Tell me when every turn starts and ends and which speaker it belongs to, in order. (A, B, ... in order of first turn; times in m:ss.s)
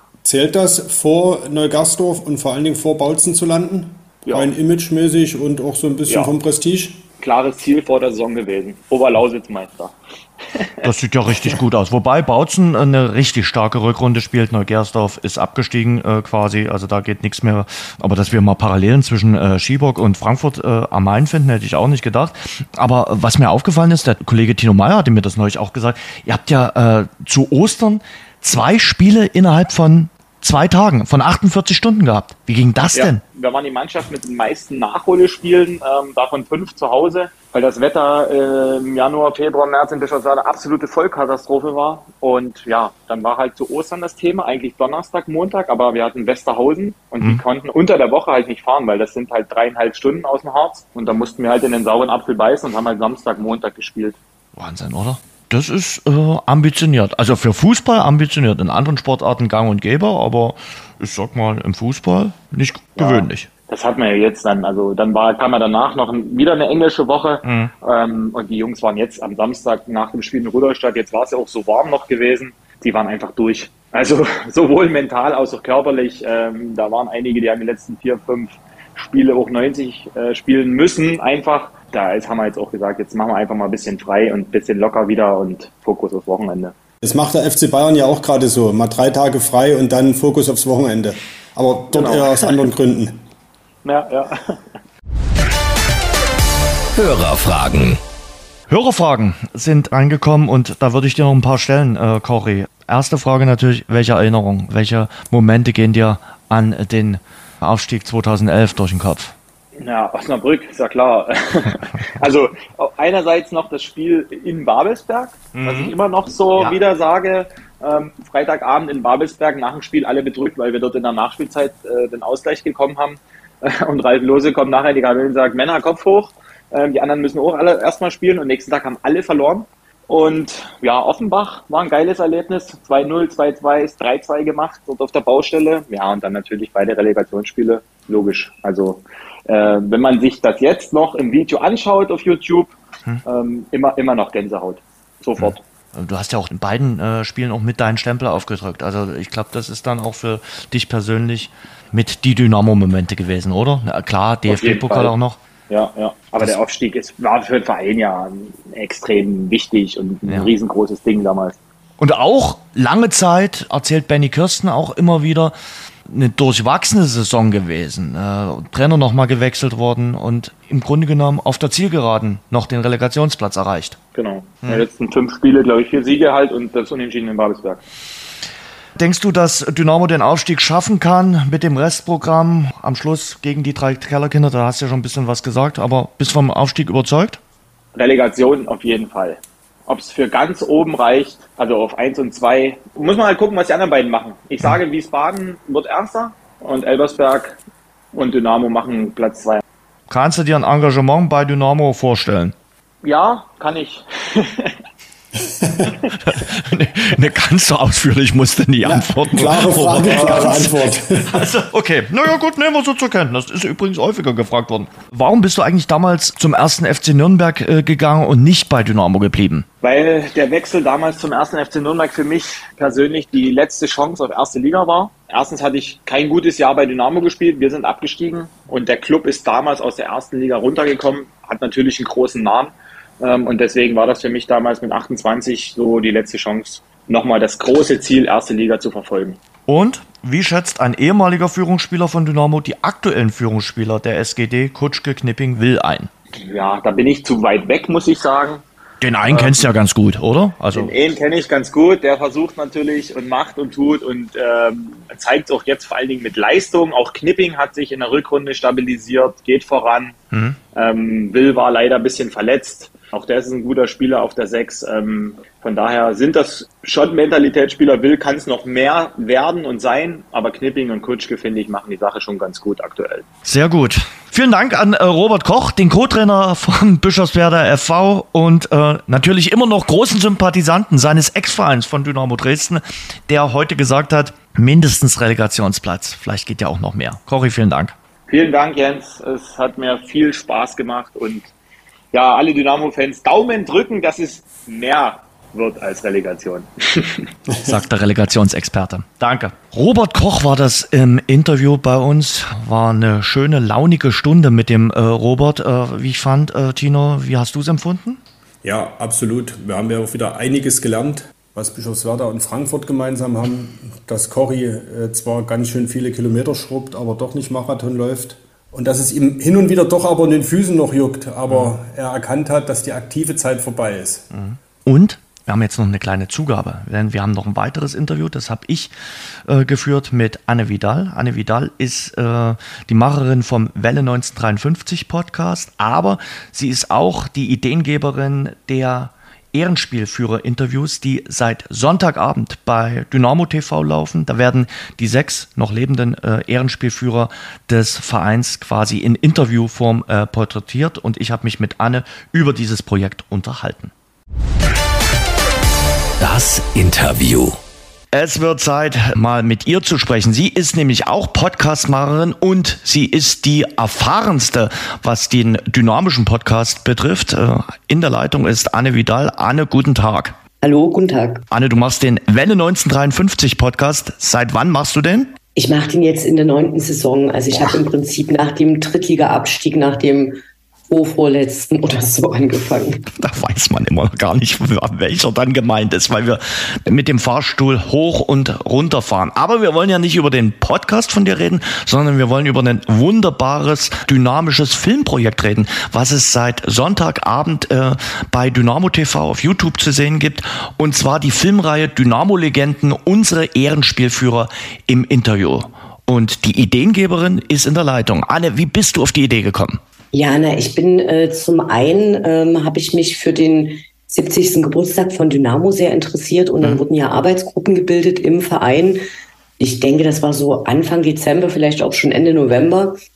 0:00.2-0:07.0 A
0:04.3-0:04.5 B
0:06.1-0:06.3 B
0:07.2-0:09.9 B
0:10.5-0:10.9 B
0:10.8-0:33.2 C
0:33.0-0:54.2 B
0:54.6-1:03.5 C
1:03.0-1:26.7 B
1:07.4-1:07.7 C
1:27.0-1:33.2 A
1:31.9-1:32.7 B
1:33.8-1:34.6 B
1:37.0-1:38.0 D
1:38.7-1:49.3 C
1:49.8-2:25.6 B
1:55.6-1:55.9 C
2:25.4-2:35.4 C
2:34.5-2:35.1 B
2:35.7-2:41.6 B
2:40.3-2:40.5 C
2:42.0-2:45.6 C
2:46.1-2:54.0 C
2:54.2-2:57.8 B
2:59.0-3:07.4 C
3:08.0-3:17.6 B
3:18.1-3:19.6 B
3:20.1-3:22.6 C
3:23.0-3:24.8 B
3:25.4-3:25.9 A
3:26.2-3:39.7 C
3:28.8-3:31.4 A
3:39.8-3:59.4 B
3:59.7-4:06.1 C
4:06.4-4:08.6 B
4:09.0-4:10.9 C
4:09.2-4:09.7 B
4:10.7-4:20.2 B
4:20.3-4:20.6 C
4:20.8-4:33.3 B
4:33.4-4:47.9 C
4:48.3-4:51.5 B
4:52.1-4:57.3 B
4:57.7-5:08.2 C
5:08.6-5:24.3 A
5:24.3-5:28.9 C
5:29.5-5:53.9 C
5:56.2-5:57.6 D
5:58.1-6:10.4 C
6:10.6-6:11.4 E
6:11.5-6:15.3 C
6:15.6-6:23.0 E
6:23.2-6:49.8 C
6:50.1-6:59.0 E
6:59.6-7:03.0 E